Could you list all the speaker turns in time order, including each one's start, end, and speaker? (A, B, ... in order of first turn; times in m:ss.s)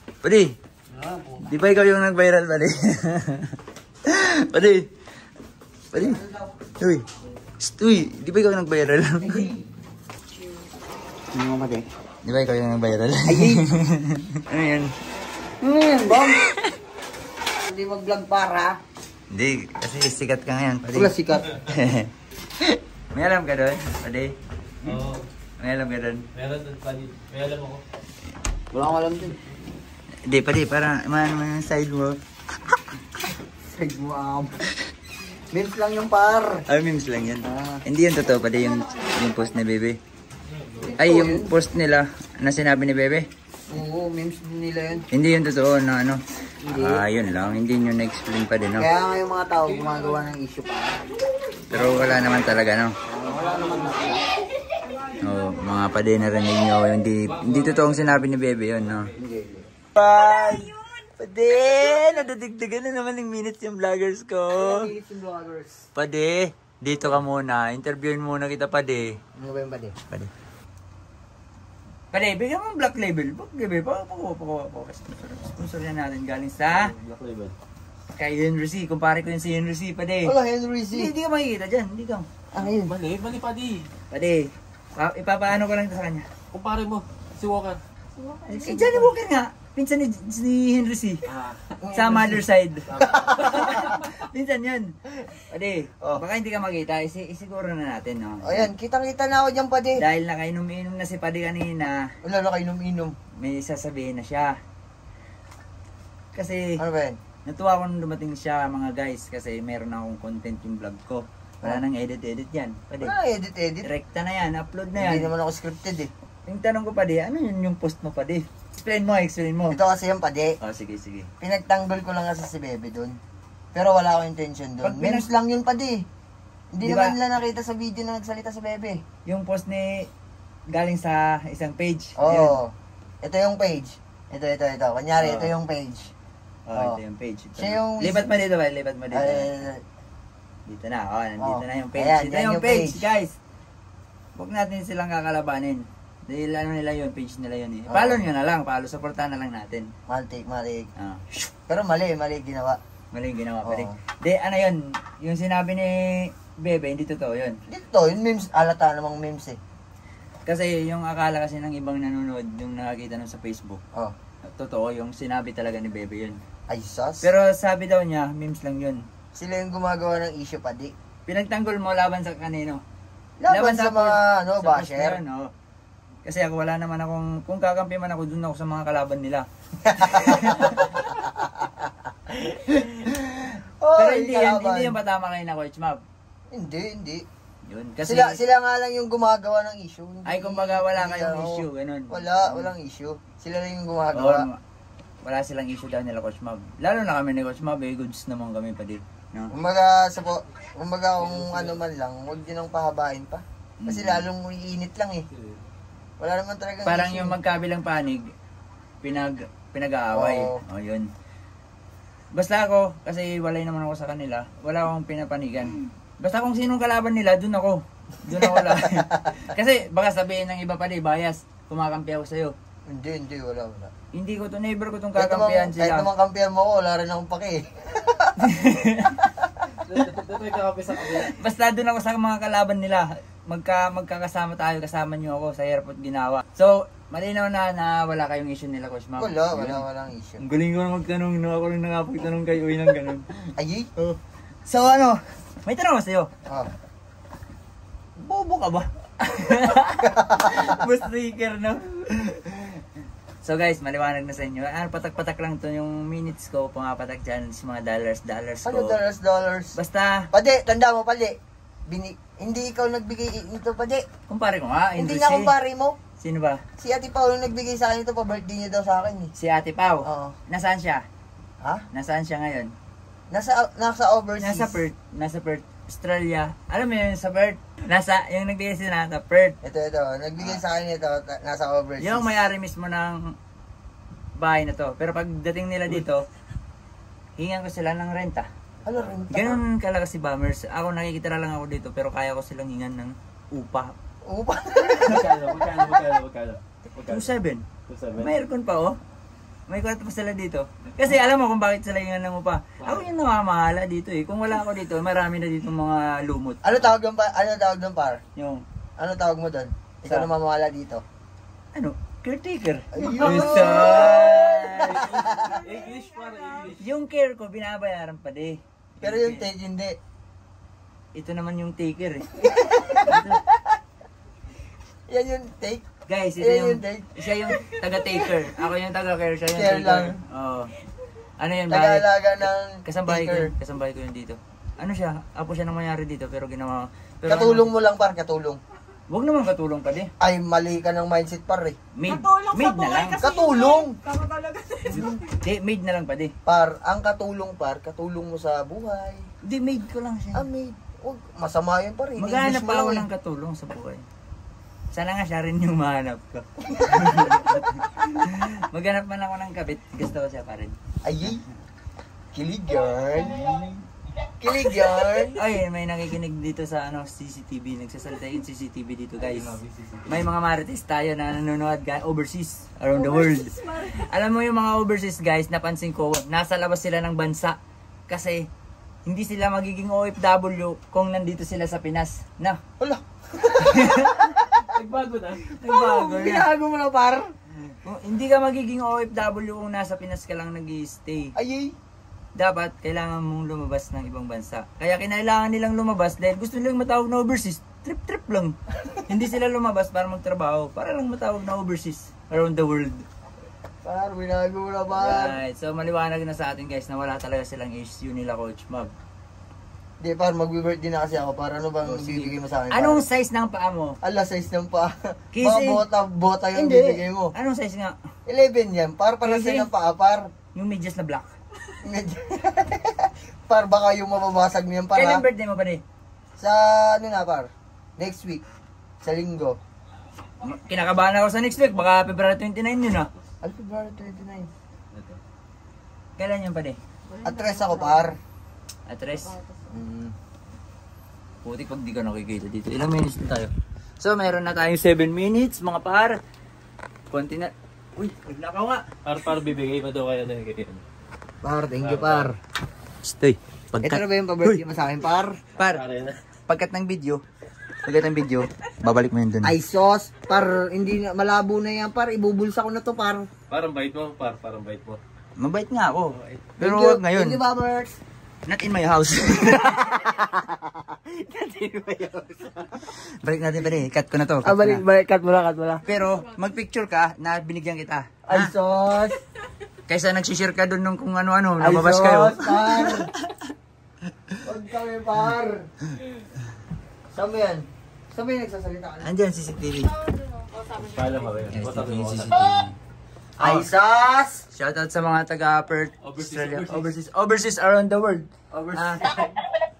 0:00.2-0:00.6 A
0:00.9-0:01.4 B
0:01.4-0:03.5 A
0:04.0-0:04.9 A
0:05.9-0:06.2 A
0:05.9-0:06.5 C
0:06.8-0:07.0 A
0:07.6-0:09.5 A
0:09.2-0:09.7 C
0:11.3-0:11.8 C
0:12.2-0:14.9 A
0:13.3-0:13.6 C
0:15.6-0:16.4 C
0:16.3-0:16.6 A
0:17.5-0:18.8 C
0:19.3-0:22.1 A
0:20.9-0:21.6 C
0:22.6-0:24.3 A
0:24.8-0:25.2 B
0:25.6-0:26.2 A
0:26.3-0:27.8 B
0:28.7-0:29.4 C
0:30.2-0:32.2 A
0:33.7-0:34.5 C
0:35.5-0:36.6 C
0:36.7-0:40.0 A
0:37.4-0:37.8 C
0:40.5-0:40.9 B
0:40.8-0:41.5 C
0:41.0-0:43.3 A
0:43.7-0:45.0 C
0:45.1-0:48.9 A
0:46.6-0:47.0 C
0:48.8-0:51.0 C
0:51.7-0:52.9 A
0:53.1-0:54.3 C
0:53.4-0:54.2 B
0:55.1-0:59.1 A
0:57.3-0:58.2 B
0:58.8-0:59.2 B
0:59.2-0:59.7 C
0:59.9-1:04.9 A
1:04.5-1:05.8 C
1:05.9-1:09.2 A
1:09.4-1:09.9 C
1:12.1-1:16.9 A
1:16.7-1:17.5 B
1:18.1-1:20.3 A
1:20.2-1:21.1 C
1:20.9-1:22.2 A
1:22.5-1:22.9 C
1:22.6-1:23.9 B
1:24.1-1:26.3 A
1:26.5-1:27.8 B
1:28.2-1:29.0 C
1:28.5-1:31.2 A
1:31.3-1:31.6 B
1:31.8-1:34.0 C
1:31.9-1:38.7 A
1:38.4-1:40.0 C
1:40.0-1:42.1 A
1:42.2-1:43.1 C
1:43.4-1:44.6 A
1:46.3-1:46.8 A
1:46.8-1:47.2 C
1:47.4-1:53.1 A
1:53.0-1:53.9 C
1:53.8-1:55.3 A
1:54.9-1:56.1 C
1:56.5-1:59.8 A
1:59.7-2:00.6 C
2:00.6-2:01.3 A
2:01.4-2:03.2 C
2:03.7-2:06.0 C
2:04.8-2:05.3 A
2:06.7-2:09.0 C
2:06.8-2:07.2 A
2:09.2-2:10.1 A
2:10.7-2:12.6 A
2:12.2-2:16.1 C
2:15.2-2:15.5 A
2:16.6-2:19.6 A
2:16.8-2:17.0 C
2:17.6-2:18.3 C
2:19.1-2:19.8 C
2:20.7-2:23.4 A
2:21.4-2:23.1 C
2:24.4-2:29.9 A
2:27.9-2:28.2 C
2:30.1-2:30.9 C
2:31.0-2:31.4 A
2:31.7-2:32.8 C
2:33.1-2:37.6 A
2:33.6-2:34.0 C
2:37.7-2:39.6 C
2:40.4-2:43.8 A
2:44.5-2:46.4 A
2:46.7-2:47.2 C
2:47.2-2:49.0 A
2:49.3-2:50.9 C
2:51.3-2:52.8 A
2:53.4-2:55.2 C
2:53.5-2:55.5 A
2:56.2-3:01.0 A
2:59.8-3:01.8 C
3:02.4-3:03.1 A
3:03.1-3:05.0 C
3:04.0-3:06.0 A
3:06.5-3:07.2 C
3:07.6-3:08.4 A
3:08.0-3:14.4 C
3:10.2-3:12.7 A
3:14.1-3:14.6 A
3:15.2-3:19.5 A
3:19.5-3:25.2 C
3:21.2-3:21.8 B
3:23.8-3:24.2 A
3:25.3-3:25.6 B
3:26.2-3:27.4 C
3:26.8-3:28.3 A
3:29.0-3:31.1 A
3:30.1-3:30.6 C
3:32.3-3:42.5 A
3:38.3-3:39.2 C
3:42.9-3:43.9 C
3:44.1-3:46.1 A
3:45.2-3:48.4 C
3:48.4-3:49.2 A
3:49.4-3:49.6 C
3:49.8-3:51.3 B
3:51.1-3:59.8 A
3:59.2-4:00.4 C
4:00.4-4:03.4 A
4:03.6-4:03.9 C
4:04.0-4:06.3 A
4:06.4-4:06.7 C
4:08.2-4:12.8 A
4:10.0-4:10.8 C
4:13.4-4:19.0 A
4:18.6-4:19.8 C
4:19.7-4:20.3 A
4:20.3-4:21.4 C
4:21.9-4:24.0 C
4:24.3-4:25.5 A
4:25.0-4:26.0 C
4:26.2-4:26.6 A
4:26.8-4:29.3 C
4:29.4-4:31.0 A
4:30.0-4:30.4 C
4:31.9-4:32.7 A
4:33.3-4:34.8 C
4:34.4-4:39.6 A
4:39.6-4:42.5 C
4:42.0-4:43.3 A
4:44.4-4:46.2 A
4:47.4-4:48.5 A
4:48.8-4:49.6 C
4:48.9-4:49.2 B
4:49.3-4:53.9 A
4:54.2-4:55.3 C
4:55.0-4:57.3 B
4:57.1-4:57.6 A
4:57.9-4:58.3 B
4:58.2-4:59.0 A
4:59.7-5:06.8 A
5:02.8-5:03.1 B
5:06.6-5:08.2 C
5:08.4-5:08.6 A
5:09.0-5:11.0 C
5:11.7-5:15.1 A
5:12.9-5:15.7 C
5:13.0-5:14.2 B
5:14.8-5:16.8 B
5:16.7-5:19.5 A
5:19.0-5:20.0 C
5:21.1-5:23.4 A
5:22.4-5:23.8 C
5:25.1-5:25.8 C
5:26.1-5:30.7 A
5:26.4-5:28.2 C
5:29.5-5:30.2 C
5:31.4-5:37.7 A
5:31.7-5:33.5 C
5:37.3-5:38.6 C
5:39.1-5:40.1 A
5:40.2-5:41.8 C
5:42.0-5:43.3 A
5:42.2-5:44.8 D
5:43.2-5:44.0 C
5:44.8-5:45.2 C
5:44.9-5:46.3 A
5:46.4-5:49.2 C
5:49.4-5:50.5 A
5:50.3-5:53.1 C
5:52.2-5:54.0 A
5:54.9-6:00.7 A
5:56.7-5:57.4 C
6:01.0-6:01.4 C
6:02.3-6:03.6 C
6:03.4-6:03.7 A
6:04.4-6:05.4 C
6:05.4-6:17.6 A
6:09.2-6:10.3 B
6:18.1-6:18.5 A
6:19.0-6:22.6 A
6:22.8-6:24.7 C
6:23.6-6:24.3 A
6:24.6-6:25.5 B
6:25.6-6:26.5 A
6:25.6-6:27.2 C
6:27.7-6:31.3 A
6:31.4-6:31.8 C
6:32.3-6:38.6 A
6:39.1-6:43.0 A
6:43.8-6:45.4 C
6:44.9-6:48.9 A
6:50.0-6:53.0 C
6:51.8-6:54.0 A
6:54.0-6:57.3 C
6:55.3-6:55.8 A
6:56.5-6:57.9 A
6:58.2-7:00.2 C
6:59.2-6:59.7 A
7:00.5-7:01.3 A
7:01.8-7:05.2 C
7:04.9-7:05.8 A
7:06.4-7:08.4 C
7:09.0-7:09.6 C
7:10.4-7:13.1 A
7:13.4-7:14.5 C
7:14.9-7:15.2 B
7:16.2-7:16.8 A
7:17.1-7:18.0 D
7:17.2-7:18.2 C
7:18.9-7:19.4 A
7:19.7-7:20.1 C
7:21.4-7:26.2 A
7:27.1-7:28.8 A
7:29.0-7:30.8 B
7:31.4-7:32.4 C
7:31.8-7:32.3 B
7:33.0-7:34.6 A
7:33.8-7:35.4 C
7:35.6-7:35.8 A
7:35.7-7:36.2 B
7:36.5-7:37.2 A
7:37.8-7:39.5 A
7:39.4-7:43.3 C
7:43.5-7:45.0 B
7:45.4-7:47.4 A
7:46.1-7:46.4 B
7:46.6-7:48.0 C
7:48.4-7:50.0 A
7:49.6-7:52.7 C
7:52.8-7:54.8 A
7:54.4-7:55.9 C
7:55.8-7:58.5 A
7:58.2-7:59.2 C
7:59.9-8:03.4 A
8:01.6-8:03.1 C
8:04.4-8:05.6 C
8:07.1-8:09.1 C
8:09.0-8:10.0 A
8:10.6-8:12.5 B
8:11.5-8:12.7 A
8:13.4-8:14.4 C
8:13.4-8:13.7 A
8:14.5-8:19.3 A
8:16.0-8:16.9 B
8:18.5-8:19.4 C